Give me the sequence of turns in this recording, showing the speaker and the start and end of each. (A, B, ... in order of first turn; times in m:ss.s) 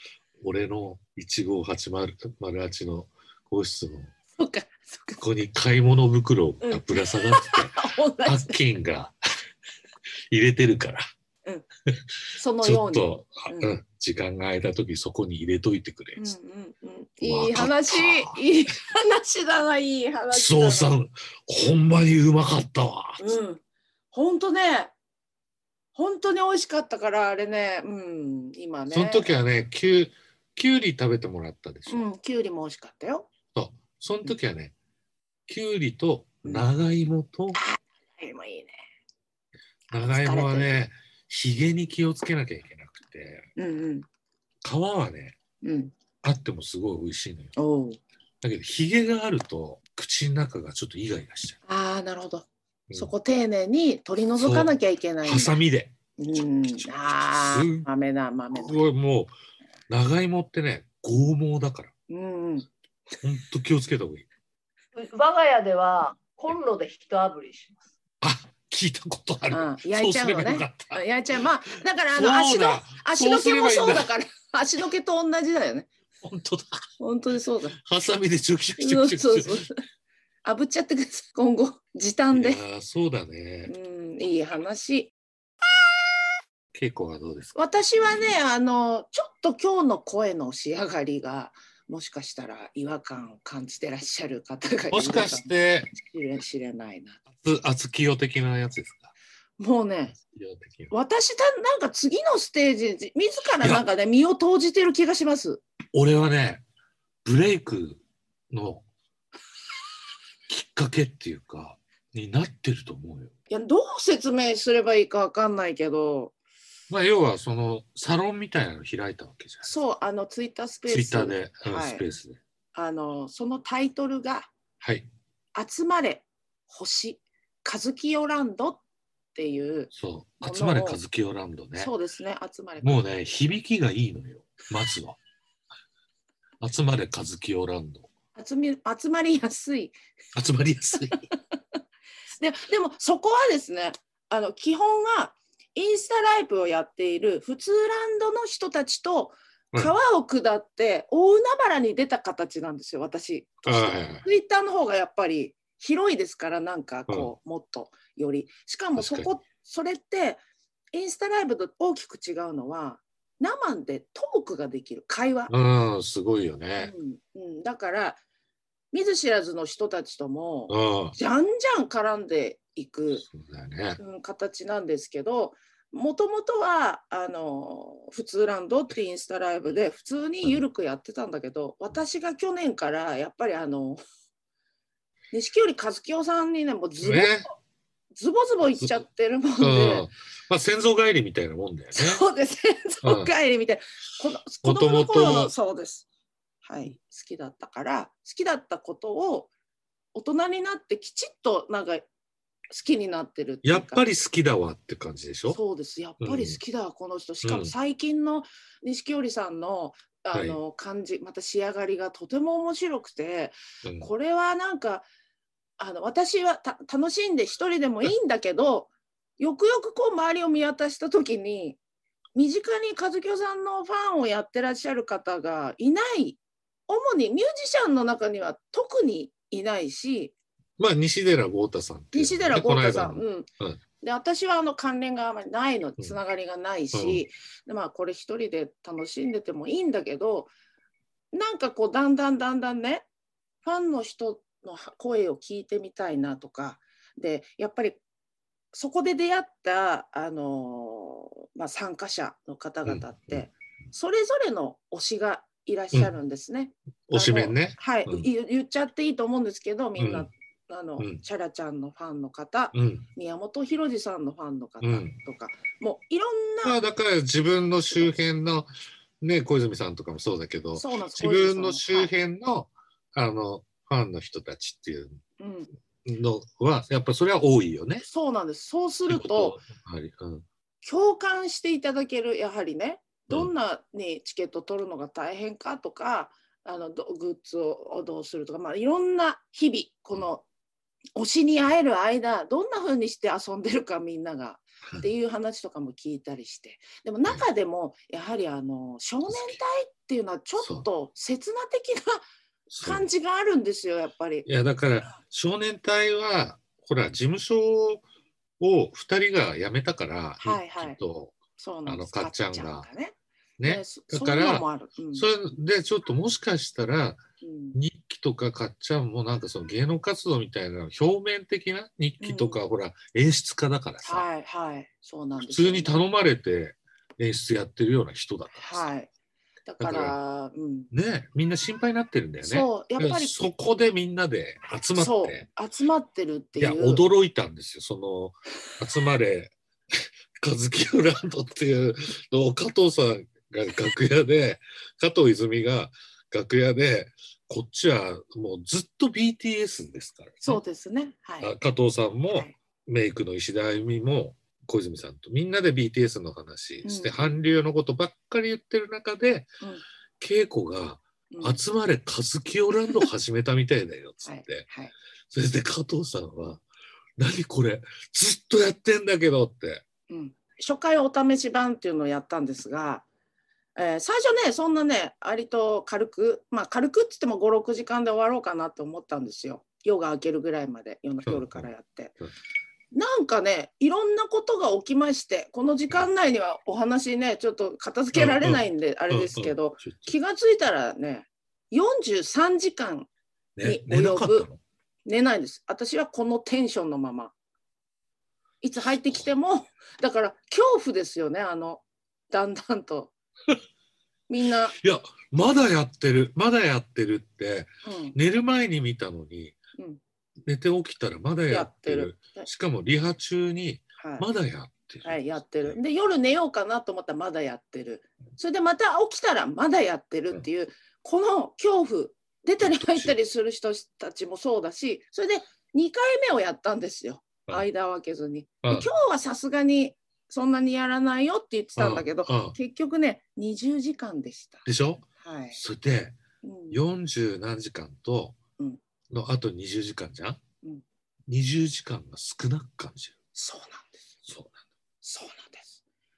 0:00.4-0:04.1 A
0:04.4-0:05.2 B
0:05.2-0:09.1 A
0:06.6-0:08.6 B
0:10.3-0:11.0 A
0:12.4-0:13.7 B
0:12.6-0:16.3 A
0:16.2-0:20.9 B
0:17.2-0:18.4 A
0:20.3-0:23.4 A
0:23.2-0:24.9 B
0:25.9-0:29.3 B
0:28.9-0:32.0 A
0:31.9-0:33.3 B
0:33.5-0:34.7 A
0:35.5-0:37.6 A
0:37.5-0:38.8 B
0:39.9-0:40.7 B
0:39.9-0:43.5 A
0:43.6-0:44.1 B
0:44.6-0:45.4 A
0:45.6-0:45.9 B
0:46.2-0:47.6 A
0:47.6-0:48.0 B
0:48.4-0:51.6 A
0:51.6-0:55.6 B
0:54.4-0:57.9 A
0:56.2-0:58.8 B
0:58.5-0:59.3 A
0:59.9-1:01.9 A
1:02.1-1:02.7 B
1:03.2-1:04.2 A
1:04.9-1:07.8 C
1:08.2-1:11.0 A
1:09.5-1:15.9 B
1:11.7-1:14.1 A
1:16.2-1:16.9 A
1:17.0-1:17.8 B
1:17.8-1:19.7 A
1:18.8-1:19.8 B
1:20.4-1:22.6 B
1:22.3-1:23.7 A
1:23.6-1:25.1 B
1:26.7-1:27.5 A
1:27.5-1:37.2 B
1:34.9-1:36.0 A
1:37.3-1:39.1 A
1:39.6-1:40.2 B
1:40.2-1:40.9 A
1:40.9-1:45.6 B
1:43.6-1:43.8 A
1:45.9-1:46.6 A
1:47.2-1:48.9 A
1:50.5-1:53.3 A
1:53.5-1:56.3 B
1:56.9-1:59.8 A
1:59.6-2:02.0 B
2:00.9-2:02.4 A
2:02.7-2:04.5 B
2:04.8-2:05.1 A
2:05.5-2:08.8 B
2:09.3-2:09.9 B
2:09.9-2:11.9 A
2:10.4-2:11.0 B
2:11.8-2:13.0 B
2:12.8-2:15.2 A
2:16.6-2:18.1 A
2:18.3-2:20.0 B
2:20.3-2:21.2 A
2:21.1-2:21.6 B
2:22.3-2:40.4 B
2:33.6-2:34.2 A
2:39.0-2:39.3 A
2:40.9-2:45.5 B
2:45.5-2:46.9 A
2:46.8-2:48.2 B
2:48.9-2:53.2 B
2:50.7-2:51.2 A
2:53.2-2:54.0 A
2:54.0-3:04.0 B
3:05.3-3:07.4 B
3:07.0-3:07.5 A
3:08.1-3:10.1 B
3:09.6-3:12.2 A
3:11.9-3:16.0 B
3:13.0-3:13.3 A
3:14.6-3:15.5 A
3:16.6-3:19.5 B
3:20.1-3:22.0 B
3:22.7-3:24.0 B
3:23.6-3:25.6 A
3:25.5-3:35.0 B
3:26.2-3:26.6 A
3:27.4-3:27.7 A
3:30.3-3:30.6 A
3:33.8-3:34.1 A
3:35.8-3:41.8 B
3:42.3-3:50.3 B
3:50.8-3:53.8 A
3:52.1-3:53.5 B
3:54.0-4:00.5 B
3:56.9-3:57.2 A
4:01.3-4:03.1 B
4:03.6-4:08.0 B
4:08.7-4:26.8 B
4:12.9-4:13.4 A
4:17.1-4:18.3 A
4:20.0-4:20.3 A
4:22.7-4:23.1 A
4:24.8-4:25.2 A
4:26.6-4:28.7 A
4:29.2-4:35.2 A
4:30.8-4:32.1 B
4:35.4-4:35.7 B
4:36.0-4:38.0 A
4:38.0-4:39.6 B
4:39.1-4:40.4 A
4:40.8-4:50.4 B
4:51.2-5:02.2 B
5:00.6-5:00.9 A
5:02.7-5:03.1 A
5:02.8-5:04.5 B
5:04.4-5:08.0 A
5:08.6-5:12.9 A
5:10.4-5:11.0 B
5:11.6-5:15.2 B
5:13.6-5:17.2 A
5:17.4-5:17.8 B
5:17.7-5:24.2 A
5:22.2-5:22.6 B
5:24.0-5:26.0 B
5:25.4-5:28.9 A
5:28.5-5:29.1 B
5:29.7-5:30.9 B
5:29.8-5:30.2 A
5:30.9-5:35.4 A
5:32.4-5:33.4 B
5:35.0-5:37.0 B
5:36.6-5:50.6 A
5:50.4-5:51.5 B
5:51.4-5:59.5 A
5:56.8-5:57.4 B
6:00.2-6:04.7 A
6:01.3-6:01.6 B
6:04.2-6:04.9 B
6:05.3-6:06.6 A
6:07.2-6:09.8 A
6:10.1-6:13.0 B
6:13.8-6:22.2 B
6:21.2-6:21.7 A
6:22.9-6:33.1 B
6:28.1-6:30.1 A
6:33.6-6:34.6 A
6:33.6-6:34.5 B
6:35.0-6:37.3 B
6:38.6-6:43.1 B
6:44.3-6:44.8 B
6:44.8-6:49.6 A
6:47.8-6:48.2 B
6:50.5-6:55.8 A
6:51.5-6:52.5 B
6:54.0-6:54.3 B
6:55.0-7:14.6 B
7:02.6-7:03.2 A
7:08.6-7:08.9 A
7:11.8-7:12.6 A
7:14.6-7:16.2 A
7:15.2-7:15.6 B
7:16.4-7:16.8 B
7:16.7-7:18.4 A
7:19.1-7:20.4 A
7:21.3-7:23.2 A
7:23.3-7:24.0 B
7:24.2-7:24.6 A
7:25.0-7:25.8 B